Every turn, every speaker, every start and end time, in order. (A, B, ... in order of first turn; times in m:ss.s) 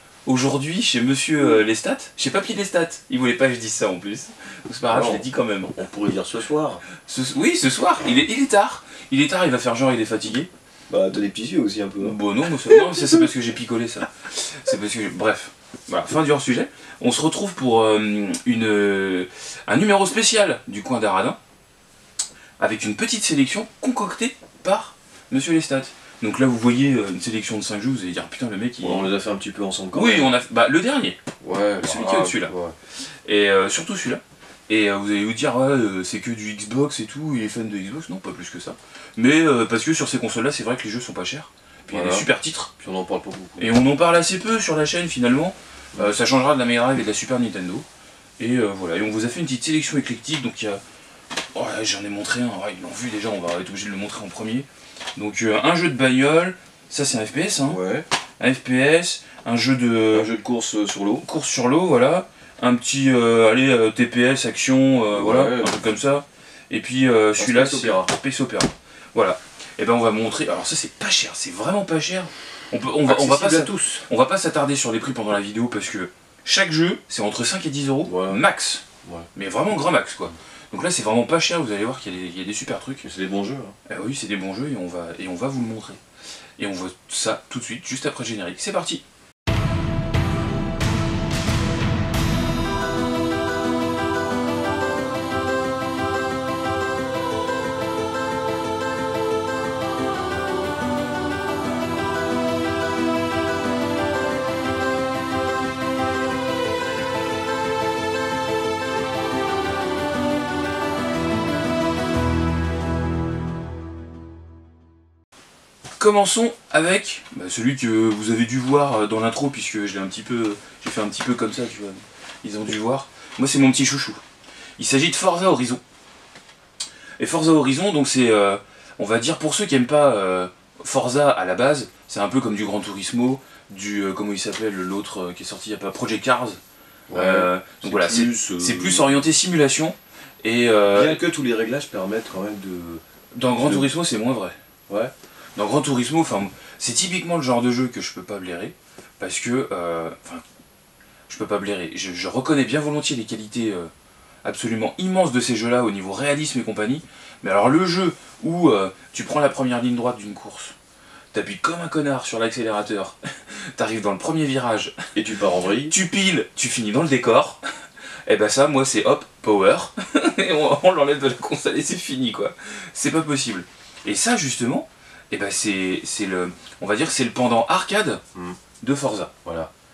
0:00.3-0:05.7 A
0:04.9-0:06.8 B
0:07.0-0:10.5 A
0:10.9-0:13.3 B
0:12.0-0:21.4 A
0:22.6-0:29.1 A
0:28.8-0:30.3 B
0:29.9-0:31.2 A
0:31.4-0:32.8 B
0:31.8-0:32.5 A
0:33.2-0:42.7 A
0:41.9-0:42.3 B
0:42.8-0:43.7 B
0:43.6-0:47.8 A
0:48.4-0:50.8 A
0:51.5-0:57.8 A
0:57.7-0:58.1 B
0:58.4-1:00.4 A
1:00.1-1:01.2 B
1:01.2-1:18.8 A
1:05.1-1:05.8 B
1:07.4-1:08.1 B
1:13.0-1:13.8 B
1:18.0-1:18.4 B
1:19.0-1:19.3 B
1:19.4-1:23.1 A
1:23.0-1:23.8 B
1:23.9-1:26.0 A
1:26.6-1:29.0 A
1:56.0-2:01.8 A
2:01.6-2:02.0 B
2:02.4-2:04.2 A
2:04.8-2:05.8 A
2:07.2-2:16.6 A
2:17.1-2:19.3 B
2:17.1-2:21.2 A
2:20.9-2:23.0 B
2:23.3-2:24.6 A
2:23.6-2:23.9 B
2:25.6-2:30.4 A
2:31.3-2:33.9 A
2:34.4-2:40.8 A
2:41.3-2:45.1 A
2:45.2-2:45.9 B
2:45.9-2:47.6 A
2:48.3-2:58.2 A
2:58.8-2:59.3 A
2:59.4-2:59.7 B